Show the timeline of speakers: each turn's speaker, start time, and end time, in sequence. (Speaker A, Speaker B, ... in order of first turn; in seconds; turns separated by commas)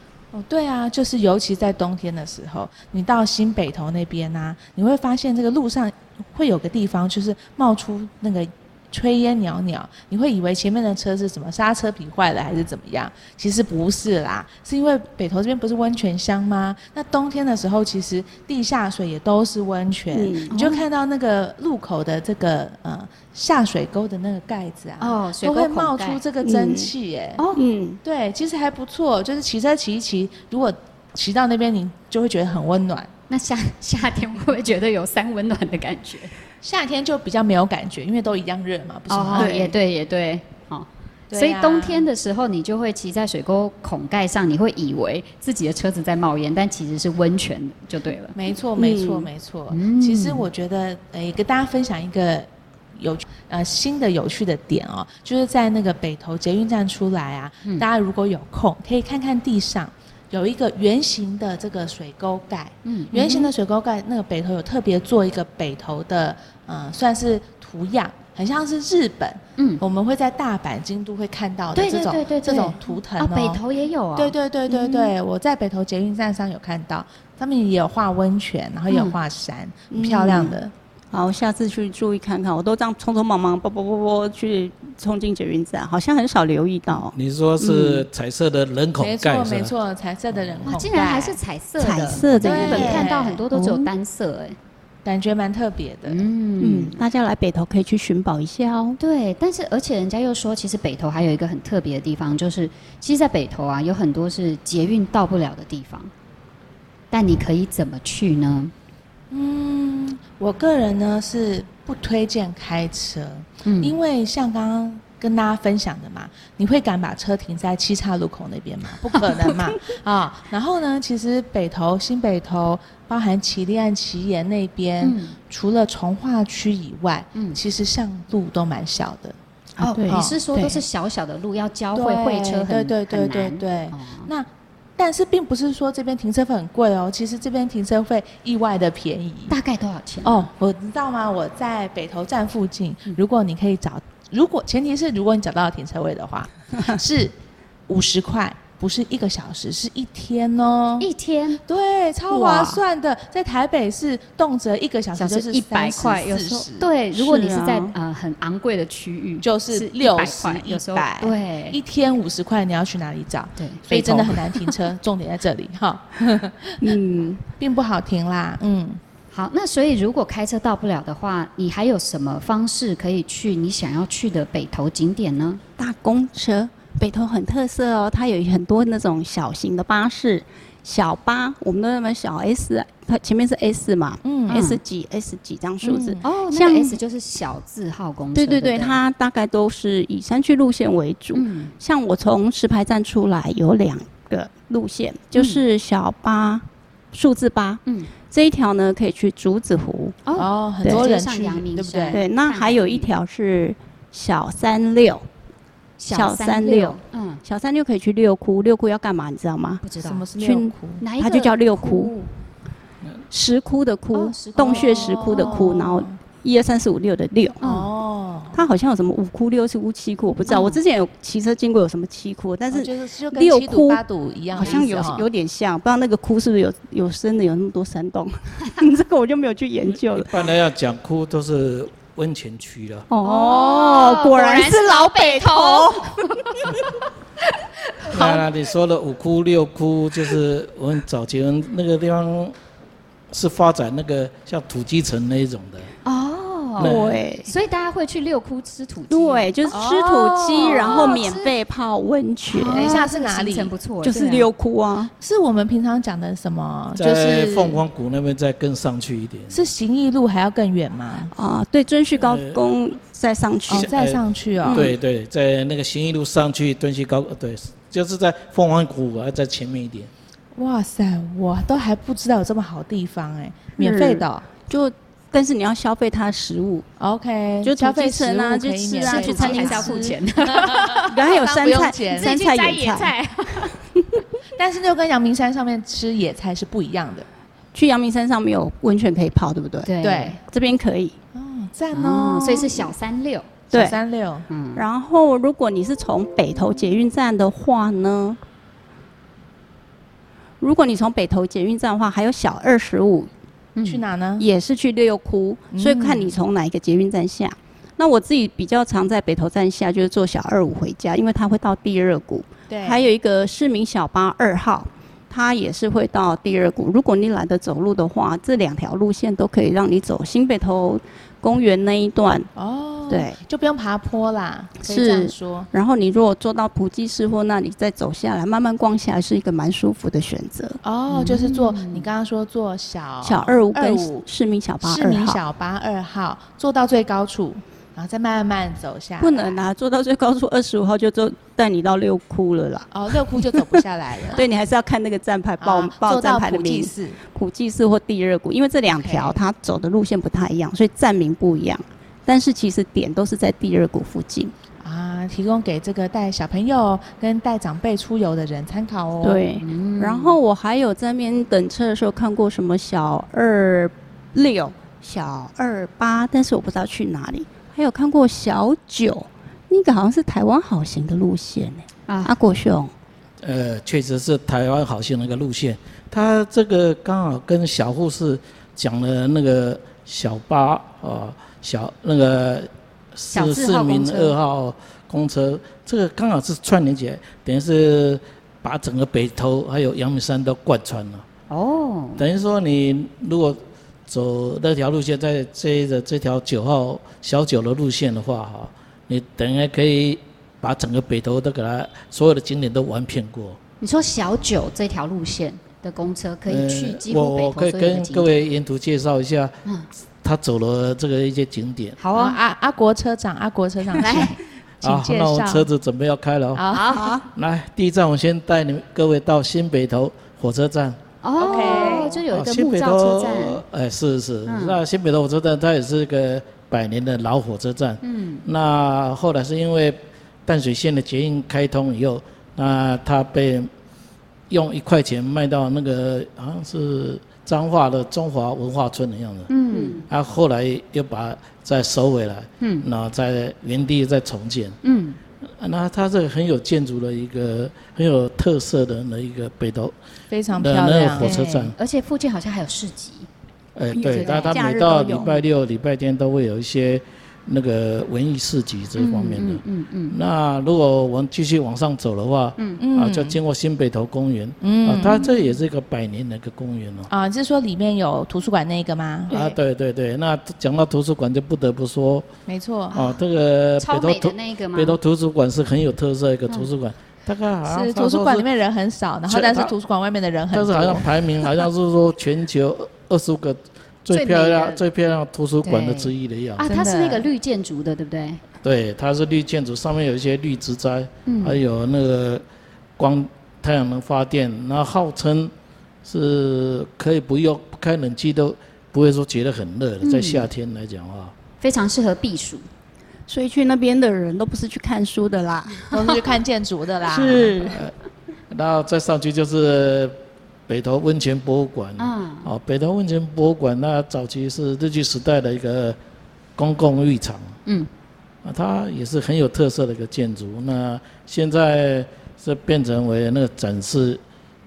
Speaker A: 0.3-27.4, Speaker B: 20.1-20.5, Speaker C: 20.5-20.9, Speaker C: 25.0-26.2, Speaker B: 26.4-26.9, Speaker C: 27.4-27.6, Speaker B: 27.5-28.0, Speaker A: 28.0-33.1, Speaker C: 33.3-36.3, Speaker A: 36.6-39.5, Speaker C: 39.1-48.4, Speaker B: 39.4-39.7, Speaker A: 41.3-42.1, Speaker A: 48.4-73.6, Speaker B: 48.8-49.3, Speaker C: 49.7-50.5, Speaker C: 62.9-63.5, Speaker C: 71.7-74.4, Speaker A: 74.2-80.7, Speaker B: 74.7-75.1, Speaker C: 78.9-79.2, Speaker B: 79.9-80.6, Speaker B: 81.1-88.1, Speaker D: 87.1-89.7, Speaker A: 89.0-91.4, Speaker C: 90.6-94.6, Speaker B: 91.8-93.9, Speaker D: 92.3-92.6, Speaker A: 92.4-93.4, Speaker A: 95.0-96.3, Speaker C: 96.1-97.0, Speaker B: 96.6-99.0, Speaker C: 99.0-106.1, Speaker C: 107.1-108.7, Speaker A: 109.3-129.4, Speaker C: 113.6-114.0, Speaker C: 125.0-125.4, Speaker B: 129.8-130.8, Speaker C: 129.8-134.3, Speaker A: 130.1-130.4, Speaker A: 131.9-139.5, Speaker C: 139.5-140.5, Speaker A: 140.2-147.3, Speaker A: 147.9-151.1, Speaker C: 151.0-151.6, Speaker A: 151.7-156.9, Speaker B: 152.3-152.8, Speaker C: 155.1-161.8, Speaker B: 157.1-157.9, Speaker A: 159.4-166.8, Speaker C: 163.6-164.7, Speaker B: 166.8-167.4, Speaker A: 167.6-169.0, Speaker C: 169.3-175.6, Speaker B: 175.8-187.0, Speaker A: 184.2-184.6, Speaker C: 184.5-184.8, Speaker A: 185.8-186.2, Speaker C: 186.2-189.0, Speaker B: 188.3-200.2, Speaker C: 191.3-191.7, Speaker C: 195.3-195.6, Speaker C: 197.9-198.1, Speaker C: 200.2-203.1, Speaker A: 200.4-202.2, Speaker B: 202.1-205.2, Speaker C: 206.0-207.4, Speaker B: 206.1-209.8, Speaker C: 209.8-210.3, Speaker A: 210.0-211.0, Speaker B: 210.4-212.1, Speaker C: 211.0-212.3, Speaker B: 213.3-217.6, Speaker C: 214.1-215.6, Speaker A: 214.6-216.1, Speaker C: 217.6-217.9, Speaker A: 217.6-218.6, Speaker B: 218.5-230.4, Speaker C: 220.5-220.8, Speaker A: 222.7-225.2, Speaker C: 224.5-225.0, Speaker D: 229.9-233.1, Speaker B: 233.1-236.6, Speaker C: 233.2-236.9, Speaker C: 237.9-238.4, Speaker D: 238.1-242.5, Speaker D: 243.3-245.9, Speaker C: 246.0-249.8, Speaker D: 246.8-247.2, Speaker B: 246.8-247.5, Speaker B: 249.1-253.0, Speaker A: 249.7-251.3, Speaker C: 250.5-251.5, Speaker C: 252.5-254.5, Speaker A: 252.6-253.7, Speaker B: 254.0-255.1, Speaker A: 255.2-257.8, Speaker D: 256.9-259.6, Speaker A: 259.5-261.3, Speaker B: 261.3-263.9, Speaker D: 262.2-262.6, Speaker A: 263.7-264.9, Speaker D: 263.7-270.1, Speaker B: 264.6-264.9, Speaker A: 270.6-274.5, Speaker B: 273.8-276.9, Speaker A: 277.0-282.4, Speaker B: 277.6-280.1, Speaker C: 279.0-281.1, Speaker B: 280.9-283.1, Speaker C: 282.1-283.8, Speaker A: 284.6-287.3, Speaker B: 287.7-289.9, Speaker C: 289.8-290.4, Speaker A: 290.0-290.4, Speaker B: 290.5-291.1, Speaker A: 291.3-292.7, Speaker C: 291.9-293.5, Speaker B: 293.7-294.0, Speaker A: 293.7-294.5, Speaker C: 294.5-294.9, Speaker B: 294.8-298.4, Speaker B: 300.6-303.3, Speaker C: 303.8-304.0, Speaker A: 303.9-304.5, Speaker B: 304.4-322.5, Speaker A: 305.7-306.4, Speaker A: 312.7-313.1, Speaker A: 322.6-325.7, Speaker B: 323.1-323.4, Speaker B: 324.8-330.8, Speaker A: 330.8-334.2, Speaker C: 331.1-332.1, Speaker B: 333.2-335.4, Speaker A: 334.8-339.6, Speaker B: 339.2-354.5, Speaker A: 342.9-344.4, Speaker A: 345.6-347.2, Speaker A: 348.9-349.4, Speaker A: 354.8-359.4, Speaker B: 359.2-372.9, Speaker C: 359.6-360.4, Speaker C: 372.1-372.3, Speaker D: 373.4-391.2, Speaker C: 383.3-384.4, Speaker C: 391.5-392.2, Speaker D: 392.2-403.6, Speaker C: 403.8-408.3, Speaker D: 406.5-409.6, Speaker D: 410.2-412.0, Speaker C: 412.0-412.4, Speaker A: 412.1-415.7, Speaker C: 414.0-414.4, Speaker D: 414.8-416.8, Speaker A: 416.5-417.1, Speaker C: 416.7-417.2, Speaker B: 416.9-417.2, Speaker D: 417.3-421.0, Speaker C: 421.2-423.6, Speaker A: 421.4-422.1, Speaker D: 422.3-433.7, Speaker C: 424.5-424.8, Speaker C: 428.0-428.4, Speaker D: 434.5-439.5, Speaker C: 439.5-440.1, Speaker D: 440.1-444.8, Speaker C: 442.6-442.9, Speaker C: 444.8-445.2, Speaker D: 445.4-449.9, Speaker A: 450.3-451.7, Speaker D: 450.5-451.8, Speaker C: 451.2-453.3, Speaker D: 453.8-467.1, Speaker B: 453.9-455.4, Speaker C: 454.1-454.6, Speaker C: 459.0-460.1, Speaker A: 462.8-463.4, Speaker A: 464.6-465.3, Speaker A: 467.1-469.4, Speaker B: 469.3-469.6, Speaker D: 469.3-472.3, Speaker A: 472.5-473.0, Speaker D: 472.9-478.5, Speaker C: 473.8-475.0, Speaker A: 477.6-481.1, Speaker D: 479.3-479.7, Speaker D: 480.5-486.7, Speaker C: 484.1-484.8, Speaker C: 485.6-488.4, Speaker A: 486.6-487.2, Speaker D: 488.6-492.4, Speaker C: 491.3-491.6, Speaker D: 493.0-495.5, Speaker D: 496.1-501.3, Speaker C: 500.0-500.5, Speaker C: 501.6-502.7, Speaker B: 503.3-505.9, Speaker A: 505.9-507.7, Speaker B: 507.1-507.8, Speaker D: 507.6-507.9, Speaker D: 508.5-510.2, Speaker D: 510.7-516.0, Speaker C: 512.0-512.5, Speaker D: 516.6-517.5, Speaker D: 518.4-524.2